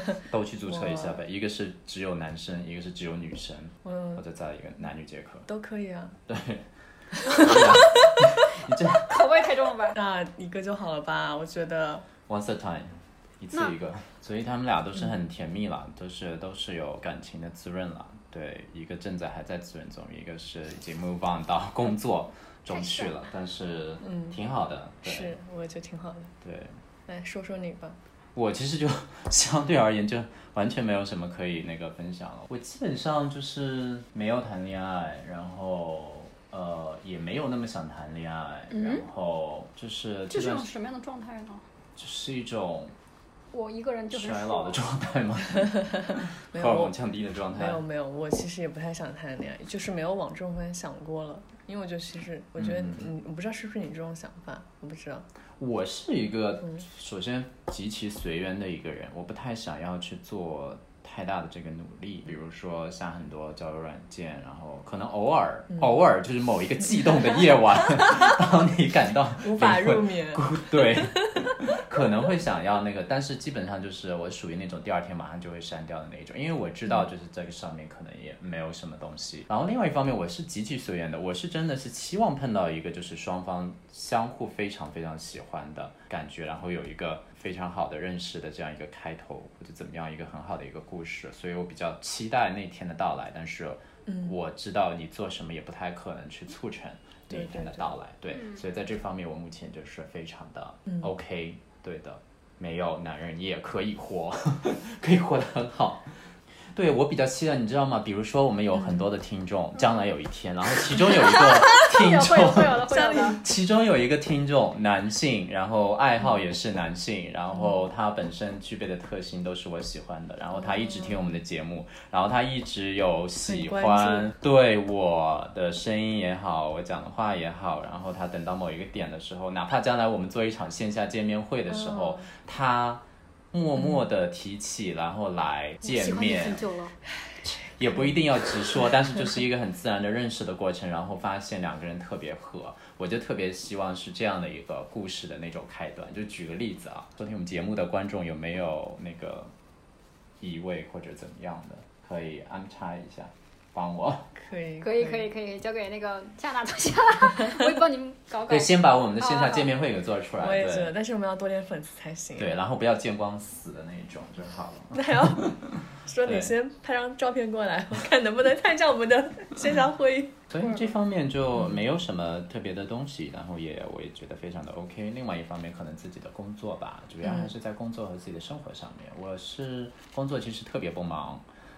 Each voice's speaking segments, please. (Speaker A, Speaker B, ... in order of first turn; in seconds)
Speaker A: 0.3-5.5, 6.3-6.7, 7.2-9.1, 12.3-25.4, 26.4-26.8, 28.4-40.7, 42.0-43.0, 44.1-47.8, 52.6-53.1, 55.6-136.7, 137.6-149.5, 150.4-154.3, 158.5-160.9, 162.4-166.6, 170.5-181.4
Speaker B: 0.7-1.2, 3.9-4.2, 5.5-6.2, 7.2-8.1, 9.9-12.1, 24.1-24.4, 25.0-26.3, 27.1-28.0, 45.6-46.9, 47.5-55.3, 69.4-71.6, 97.3-97.9, 113.0-113.4, 123.5-124.3, 131.7-132.3, 154.3-155.3, 160.4-162.6, 164.9-170.5, 177.2-177.5
Speaker C: 9.0-10.0, 22.7-23.2, 38.7-39.1, 40.3-41.6, 43.5-44.8, 98.3-98.6, 111.3-113.4, 135.8-137.0, 154.8-159.7